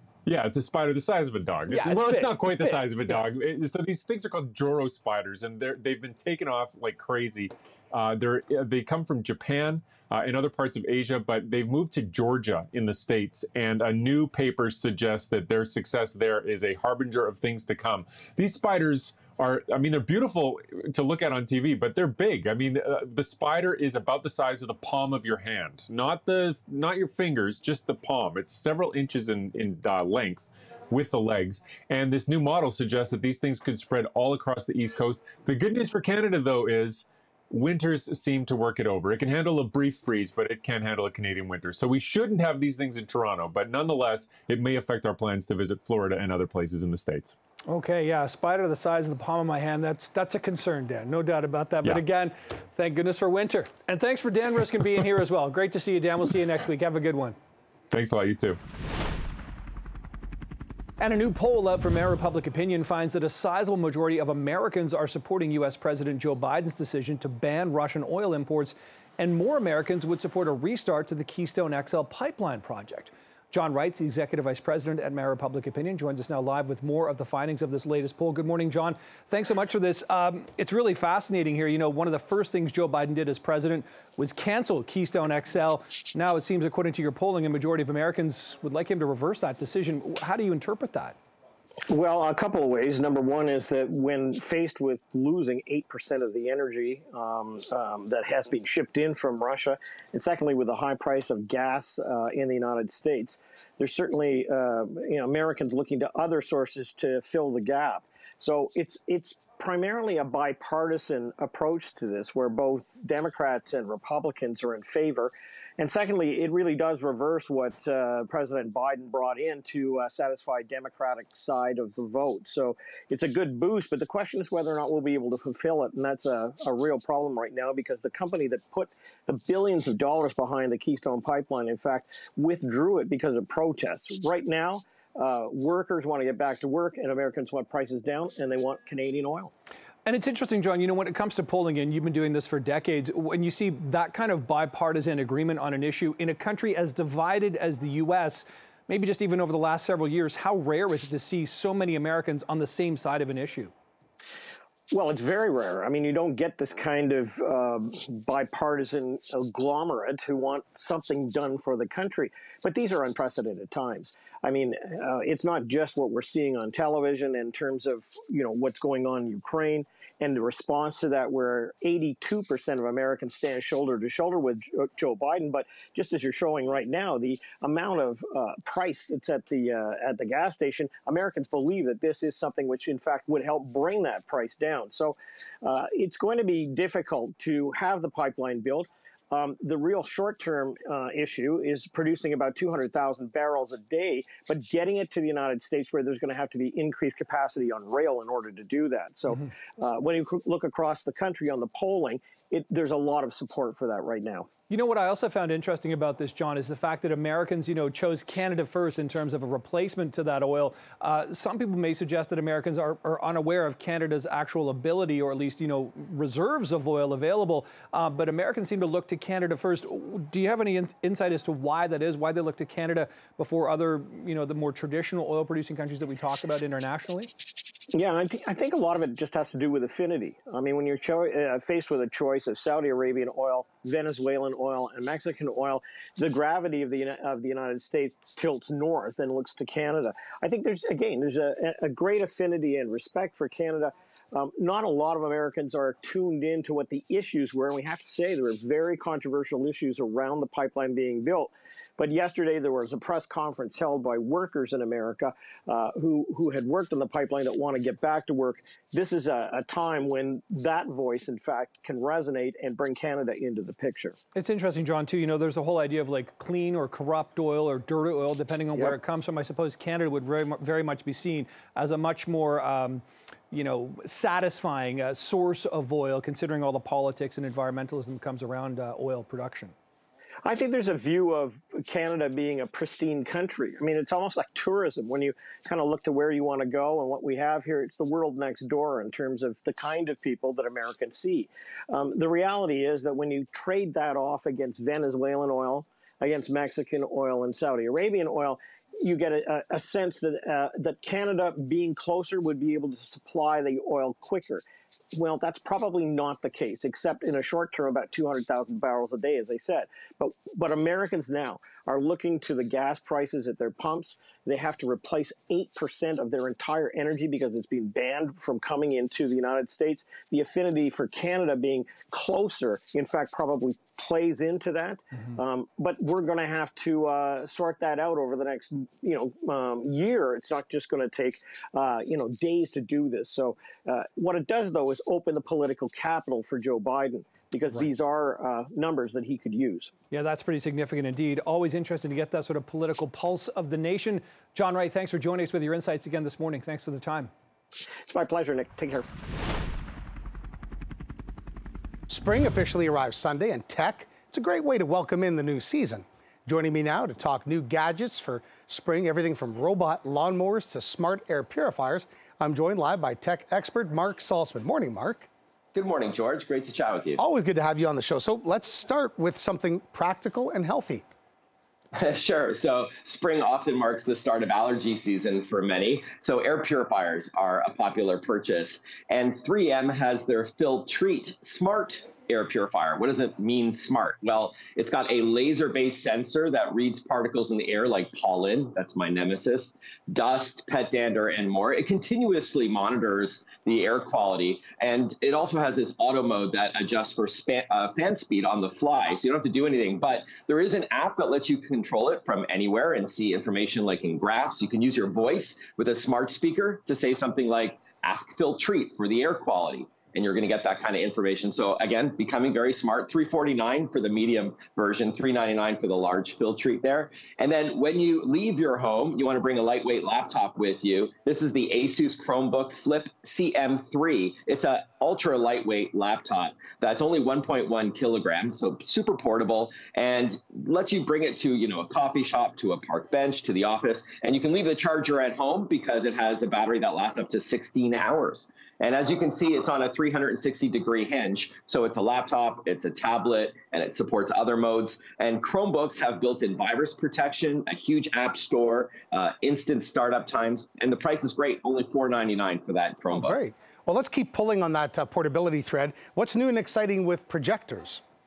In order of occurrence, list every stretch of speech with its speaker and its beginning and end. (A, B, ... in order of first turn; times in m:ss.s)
0:00.2-0:47.4 A
0:01.7-0:03.2 B
0:47.7-0:57.4 B
0:57.9-0:58.6 A
1:01.0-1:31.2 B
1:31.9-2:19.5 C
2:20.0-2:33.7 B
2:34.9-3:24.5 C
3:24.7-3:47.3 B
3:47.9-4:24.2 C
4:24.3-4:39.7 B
4:40.4-5:04.6 C
5:05.1-5:39.9 C
5:40.1-5:47.3 B
5:48.1-5:49.1 C
5:52.1-6:05.3 D
6:05.7-6:07.2 E
6:07.2-6:11.0 D
6:11.9-7:33.4 E
7:33.1-7:38.0 D